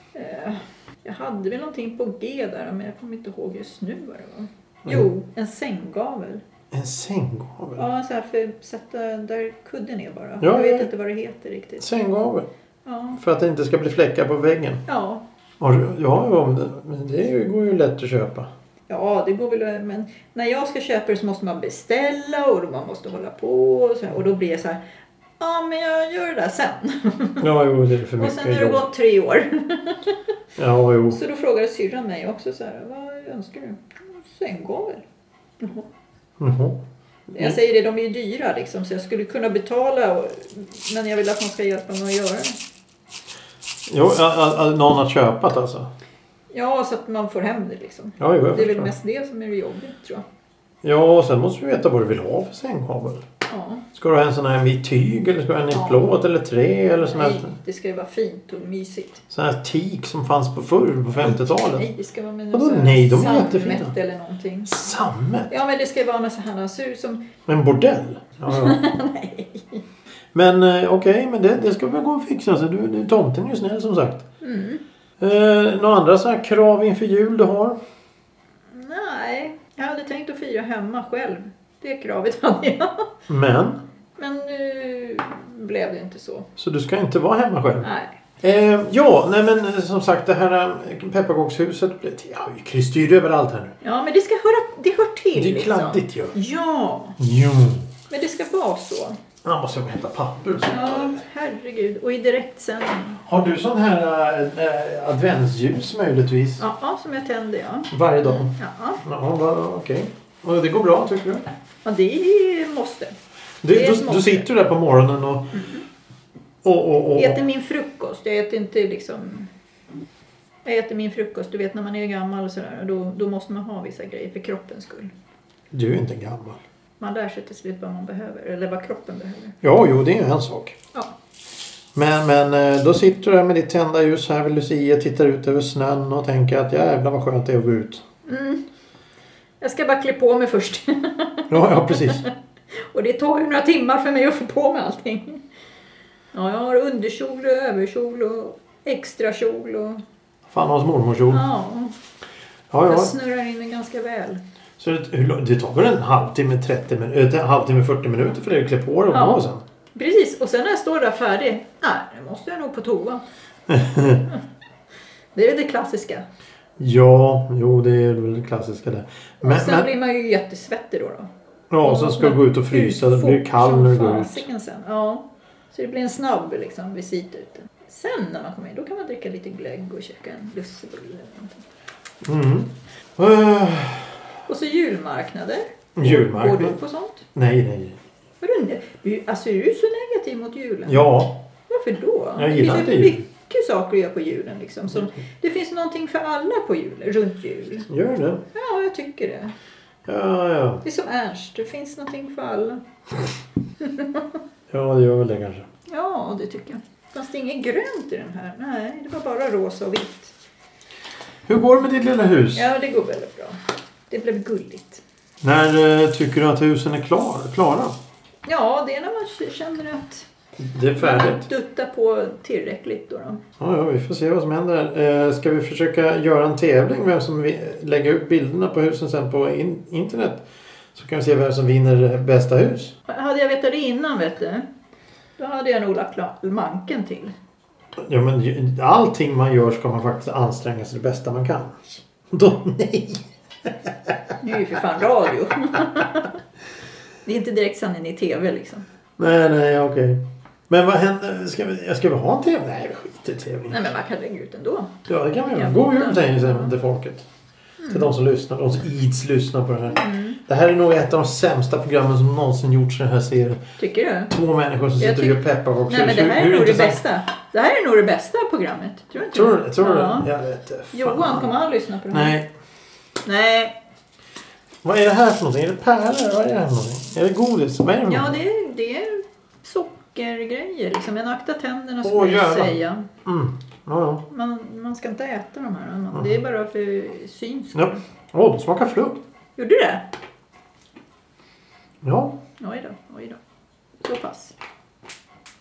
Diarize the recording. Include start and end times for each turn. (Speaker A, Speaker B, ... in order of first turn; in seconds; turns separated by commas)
Speaker A: 0.1-6.4, Speaker B: 6.7-7.9, Speaker A: 7.8-11.9, Speaker B: 10.4-10.9, Speaker B: 11.8-12.5, Speaker A: 12.9-13.2, Speaker B: 13.2-14.8, Speaker A: 14.9-15.2, Speaker B: 15.6-18.5, Speaker A: 18.9-24.8, Speaker A: 25.4-27.5, Speaker B: 27.4-28.9, Speaker A: 28.2-30.2, Speaker B: 30.6-31.2, Speaker A: 31.1-35.0, Speaker A: 35.6-35.9, Speaker B: 36.4-36.8, Speaker B: 37.3-37.6, Speaker A: 37.3-42.6, Speaker B: 43.9-45.9, Speaker A: 46.5-50.2, Speaker B: 48.2-48.9, Speaker B: 50.8-53.2, Speaker A: 53.5-53.9, Speaker B: 53.9-57.5, Speaker A: 55.7-56.1, Speaker A: 57.0-59.2, Speaker B: 59.3-61.9, Speaker A: 61.2-64.8, Speaker B: 62.5-63.9, Speaker B: 64.7-65.5, Speaker A: 65.5-67.3, Speaker B: 67.5-68.8, Speaker A: 68.5-69.8, Speaker B: 70.3-74.3, Speaker A: 74.4-74.8, Speaker B: 75.2-77.8, Speaker A: 78.7-83.1, Speaker B: 83.3-83.8, Speaker A: 84.2-86.5, Speaker B: 86.6-87.9, Speaker A: 87.8-88.2, Speaker B: 88.4-93.7, Speaker A: 93.8-97.2, Speaker B: 95.3-96.3, Speaker B: 97.2-97.9, Speaker A: 98.1-99.2, Speaker B: 99.4-101.2, Speaker A: 100.7-103.2, Speaker B: 103.2-106.6, Speaker A: 106.6-109.0, Speaker B: 107.9-111.5, Speaker A: 111.8-113.1, Speaker B: 113.6-115.7, Speaker A: 113.7-114.5, Speaker A: 115.5-115.8, Speaker B: 116.6-117.4, Speaker A: 117.2-119.5, Speaker A: 120.7-125.1, Speaker B: 125.7-126.6, Speaker A: 127.0-129.6, Speaker B: 129.6-130.8, Speaker B: 131.9-138.0, Speaker A: 138.3-138.6, Speaker A: 139.6-145.4, Speaker B: 141.5-142.3, Speaker A: 146.3-150.0, Speaker B: 150.5-151.5, Speaker A: 151.3-151.9, Speaker B: 152.7-153.1, Speaker A: 152.8-154.4, Speaker B: 154.8-159.6, Speaker A: 159.1-163.2, Speaker B: 163.7-164.3, Speaker A: 165.3-166.2, Speaker B: 166.8-169.9, Speaker A: 169.4-171.3, Speaker B: 171.7-174.5, Speaker A: 171.8-181.6, Speaker B: 182.2-184.2, Speaker A: 184.5-187.3, Speaker B: 186.0-186.8, Speaker B: 187.3-188.0, Speaker A: 188.4-191.0, Speaker B: 190.9-191.4, Speaker A: 191.7-197.9, Speaker B: 192.4-193.2, Speaker B: 197.9-198.4, Speaker A: 198.5-199.5, Speaker B: 200.1-200.8, Speaker A: 200.8-202.8, Speaker A: 203.8-204.4, Speaker B: 204.7-205.7, Speaker A: 205.9-210.3, Speaker B: 211.5-212.7, Speaker A: 212.5-213.6, Speaker A: 214.1-215.0, Speaker B: 215.4-217.9, Speaker A: 218.5-220.3, Speaker B: 220.6-221.5, Speaker A: 221.0-223.4, Speaker B: 223.6-232.9, Speaker A: 233.1-234.7, Speaker A: 235.4-237.3, Speaker B: 238.0-244.2, Speaker A: 244.4-246.4, Speaker A: 247.2-248.8, Speaker B: 249.2-253.8, Speaker A: 253.7-255.0, Speaker B: 255.1-257.3, Speaker A: 255.5-256.7, Speaker A: 257.8-258.1, Speaker B: 257.9-263.6, Speaker A: 259.9-260.4, Speaker A: 263.8-264.3, Speaker B: 264.3-267.0, Speaker A: 265.0-270.3, Speaker B: 269.2-271.5, Speaker A: 270.9-272.4, Speaker B: 272.1-272.5, Speaker A: 273.2-273.8, Speaker B: 274.8-278.4, Speaker A: 278.1-283.1, Speaker B: 282.0-284.2, Speaker A: 284.3-288.0, Speaker B: 287.8-289.2, Speaker A: 289.6-290.1, Speaker B: 292.0-292.4, Speaker A: 292.6-293.4, Speaker A: 294.0-294.6